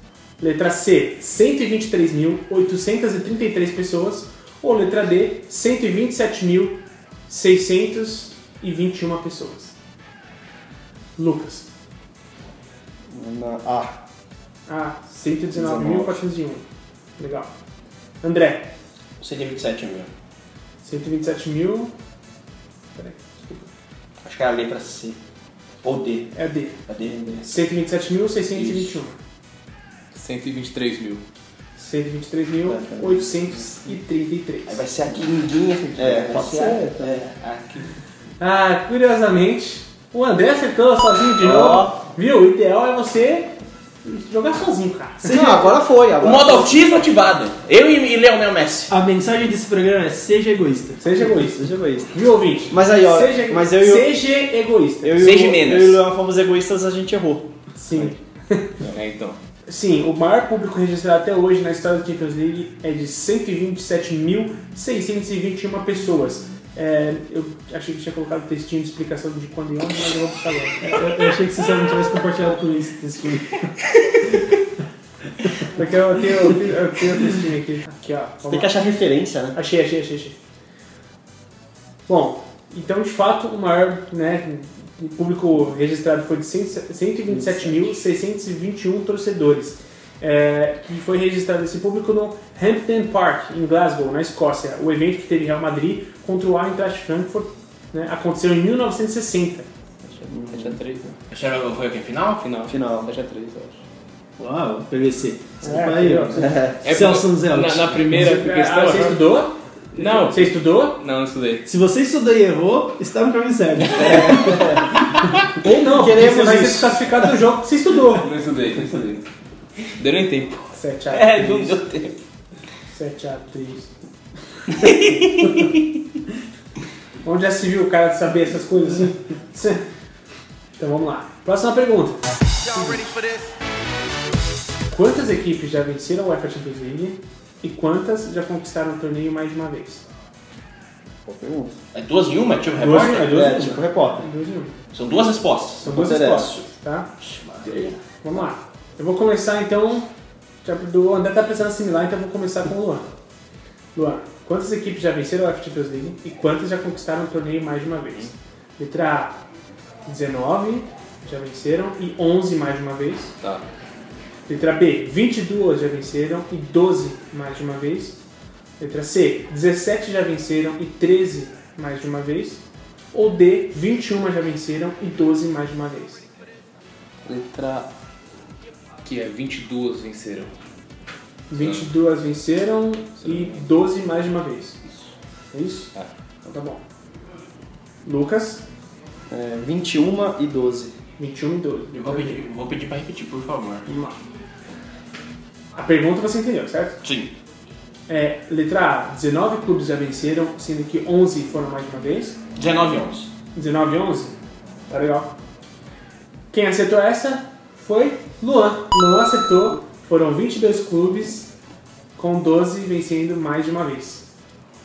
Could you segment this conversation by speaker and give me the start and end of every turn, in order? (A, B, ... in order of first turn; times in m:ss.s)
0:00.4-0:09.8 A
0:11.2-0:11.7 A
0:13.1-0:14.0 B
0:14.7-0:16.6 A
0:15.5-0:16.2 B
0:17.2-0:17.5 A
0:18.2-0:18.7 A
0:19.2-0:20.1 C
0:20.8-0:21.9 A
0:23.0-0:23.7 A
0:24.2-0:25.2 C
0:25.8-0:26.3 C
0:26.3-0:26.8 A
0:26.9-0:27.5 C
0:27.4-0:29.2 A
0:28.5-0:29.0 C
0:30.1-0:31.2 D
0:31.8-0:34.8 A
0:32.7-0:33.7 B
0:34.7-0:37.9 C
0:36.0-0:37.2 B
0:38.4-0:45.4 A
0:41.4-0:42.0 B
0:45.2-0:46.8 B
0:45.2-0:45.7 E
0:46.2-0:48.9 C
0:48.9-0:51.0 E
0:51.0-0:55.2 A
0:51.2-0:52.2 B
0:52.7-0:54.1 B
0:55.0-0:58.1 B
0:55.2-0:56.0 C
0:57.8-0:58.7 A
0:58.9-0:59.4 D
0:59.7-1:10.8 A
1:10.8-1:13.7 E
1:15.7-1:18.7 A
1:18.4-1:19.6 B
1:19.5-1:20.4 A
1:22.1-1:39.7 A
1:40.0-1:41.1 D
1:40.3-1:40.8 B
1:41.3-1:42.5 C
1:42.4-1:43.8 D
1:42.7-1:43.1 B
1:44.4-1:48.1 E
1:45.6-1:46.4 A
1:46.4-1:46.8 B
1:46.8-1:49.3 D
1:48.1-1:51.0 A
1:49.9-1:51.6 D
1:51.6-1:55.1 E
1:54.0-1:54.8 B
1:55.6-1:58.3 A
1:55.8-1:57.1 B
1:58.2-1:59.2 D
2:00.0-2:00.7 D
2:00.7-2:01.8 A
2:01.1-2:02.2 C
2:02.9-2:03.9 A
2:04.8-2:05.5 A
2:04.8-2:05.8 C
2:07.2-2:09.8 A
2:10.8-2:13.2 A
2:14.9-2:20.0 A
2:21.2-2:21.8 B
2:21.9-2:23.5 C
2:22.8-2:24.7 A
2:23.2-2:24.2 B
2:24.9-2:25.9 C
2:25.8-2:27.1 A
2:25.8-2:26.6 B
2:27.2-2:28.0 C
2:28.2-2:30.1 A
2:30.6-2:33.1 A
2:33.9-2:39.4 A
2:40.0-2:43.3 A
2:44.5-2:48.2 A
2:48.8-2:56.3 A
2:57.2-2:57.9 D
2:59.0-3:00.5 D
3:01.5-3:04.8 A
3:01.6-3:01.9 D
3:03.2-3:03.6 D
3:05.5-3:05.9 A
3:06.4-3:06.8 A
3:08.0-3:08.6 A
3:09.3-3:10.9 B
3:11.2-3:12.4 A
3:11.9-3:13.9 C
3:13.8-3:14.2 A
3:15.7-3:17.0 A
3:17.0-3:17.3 C
3:18.1-3:22.4 A
3:22.5-3:23.3 C
3:23.5-3:24.3 A
3:24.9-3:25.3 A
3:26.5-3:31.5 A
3:32.2-3:34.2 A